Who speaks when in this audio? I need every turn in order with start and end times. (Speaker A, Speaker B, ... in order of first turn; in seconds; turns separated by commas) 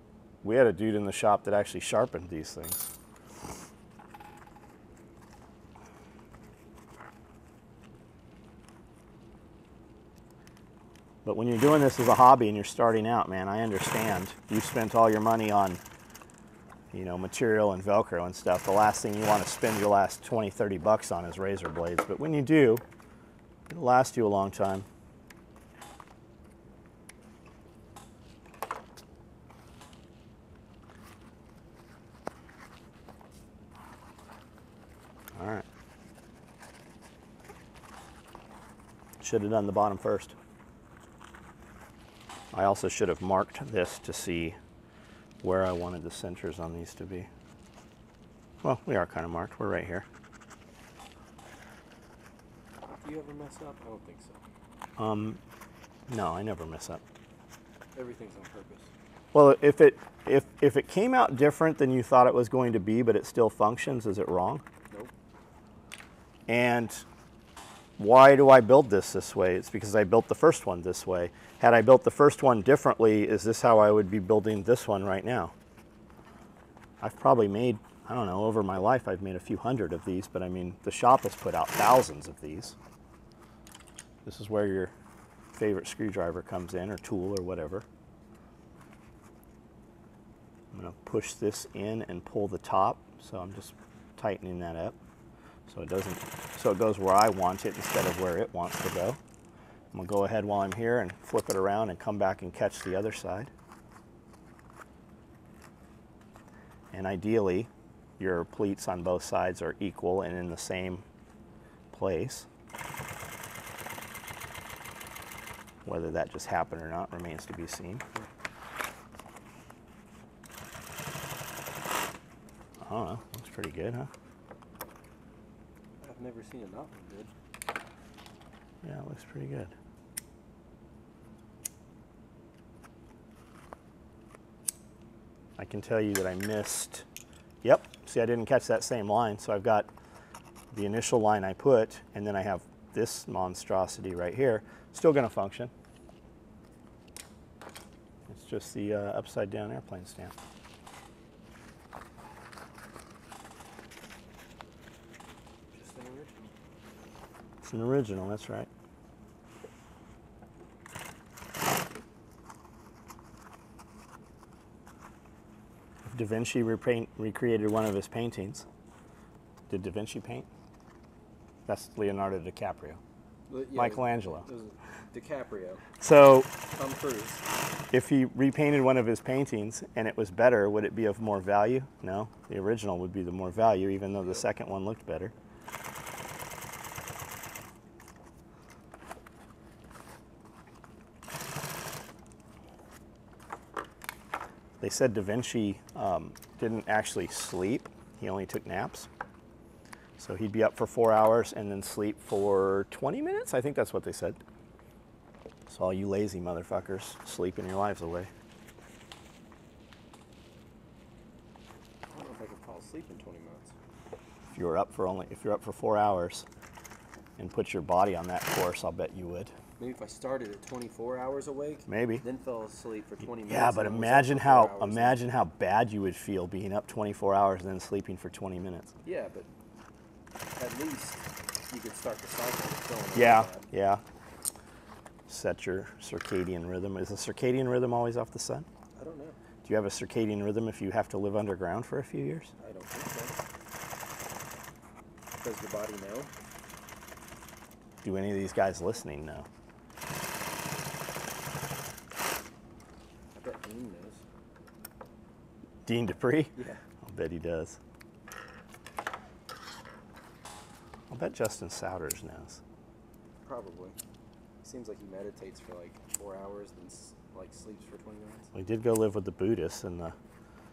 Speaker A: 0.4-2.9, Speaker A: 11.2-15.8, Speaker A: 16.9-22.8, Speaker A: 23.7-24.9, Speaker A: 35.4-35.6, Speaker A: 39.2-40.3, Speaker A: 42.5-44.6, Speaker A: 45.4-47.3, Speaker A: 48.6-50.0, Speaker B: 52.9-54.4, Speaker A: 55.0-55.4, Speaker A: 56.1-57.0, Speaker B: 57.9-58.9, Speaker A: 59.3-64.6, Speaker A: 66.5-67.0, Speaker A: 68.0-75.5, Speaker A: 77.0-82.8, Speaker A: 84.2-84.9, Speaker A: 85.5-87.8, Speaker A: 90.7-95.0, Speaker A: 95.7-99.2, Speaker A: 99.9-103.5, Speaker A: 106.9-111.0, Speaker A: 111.9-112.5, Speaker A: 115.8-118.0, Speaker A: 122.8-124.1, Speaker B: 126.0-127.3, Speaker A: 128.8-129.7, Speaker A: 135.6-137.0, Speaker A: 137.6-139.9, Speaker A: 140.7-145.7, Speaker A: 148.3-150.3, Speaker B: 155.7-156.5, Speaker A: 157.6-158.7, Speaker A: 166.1-168.6, Speaker A: 169.7-170.5, Speaker A: 171.7-173.0, Speaker B: 173.5-175.8, Speaker A: 173.7-174.4, Speaker A: 176.0-176.5, Speaker B: 176.7-177.4, Speaker A: 177.9-185.3, Speaker A: 194.8-199.1, Speaker A: 200.2-204.4, Speaker A: 205.7-208.3, Speaker B: 212.1-213.7, Speaker A: 214.5-216.4, Speaker A: 217.4-219.5, Speaker B: 219.8-225.2, Speaker A: 221.9-222.2, Speaker A: 223.4-228.9, Speaker B: 229.0-229.5, Speaker B: 230.6-233.7, Speaker A: 233.1-234.0, Speaker A: 235.3-238.7, Speaker B: 238.9-239.4, Speaker A: 239.6-242.5, Speaker B: 242.6-243.4, Speaker B: 245.3-246.3, Speaker A: 248.0-249.5, Speaker B: 253.4-254.2, Speaker A: 255.9-256.5, Speaker A: 257.0-257.8, Speaker A: 261.1-262.6, Speaker B: 263.4-264.0, Speaker B: 264.6-268.5, Speaker A: 268.5-270.1